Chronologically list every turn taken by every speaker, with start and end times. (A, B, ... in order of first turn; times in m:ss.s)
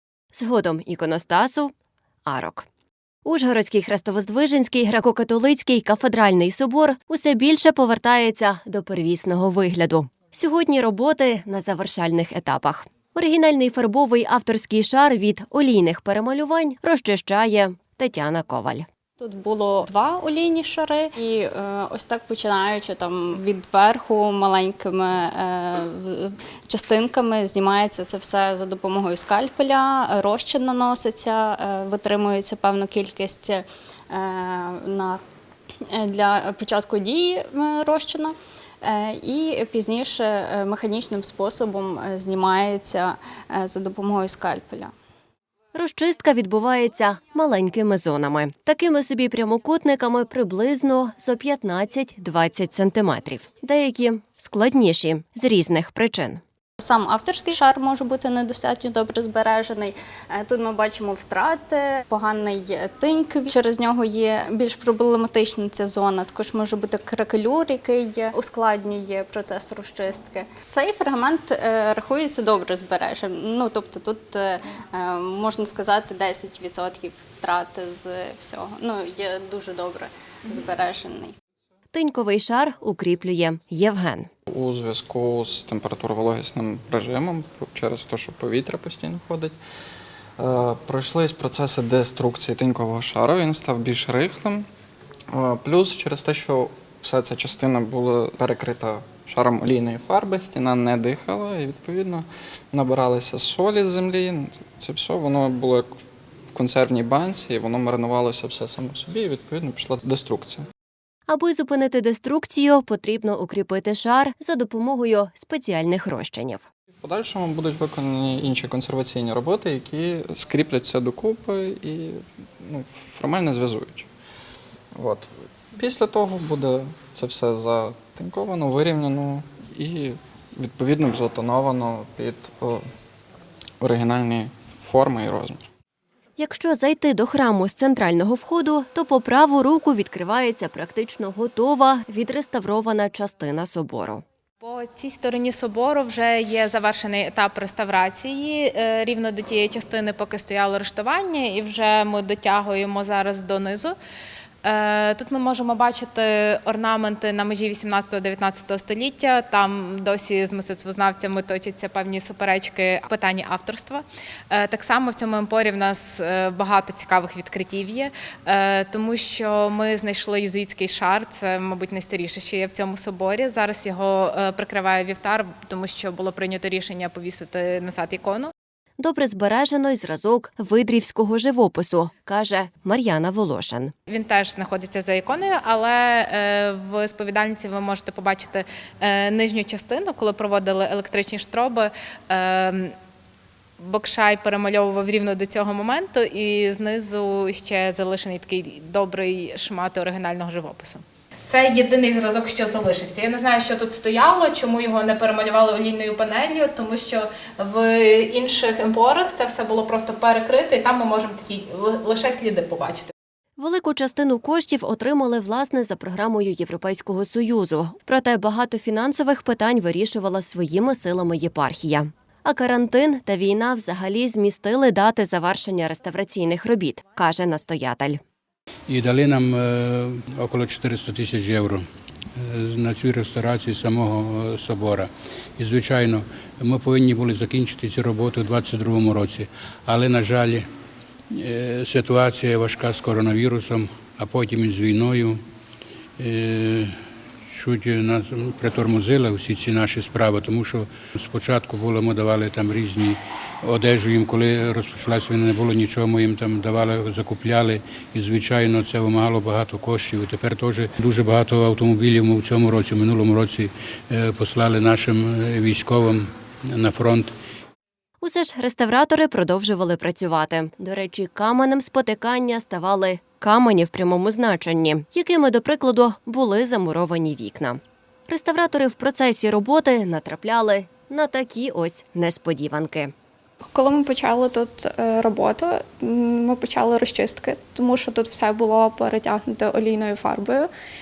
0:00.3-0:01.7 A
0:02.2-0:02.6 A
0:03.2-0:18.8 A
0:19.2-0:35.2 B
0:35.9-0:44.9 B
0:45.7-0:56.4 A
0:56.8-1:21.3 B
1:21.9-1:24.3 A
1:24.5-1:29.6 C
1:30.4-1:34.7 C
1:35.3-1:46.0 C
1:46.5-1:50.7 C
1:51.3-1:56.6 A
1:57.0-2:04.1 C
2:05.0-2:12.8 C
2:13.8-2:15.6 C
2:16.4-2:24.2 A
2:24.6-2:33.9 D
2:34.6-2:58.5 D
2:59.0-3:03.9 A
3:04.1-3:12.9 D
3:13.8-3:33.1 D
3:33.6-3:48.2 A
3:48.9-3:51.8 E
3:52.4-4:00.6 E
4:01.3-4:05.4 E
4:06.2-4:07.0 E
4:07.5-4:27.3 E
4:28.2-4:43.1 A
4:43.7-4:50.7 F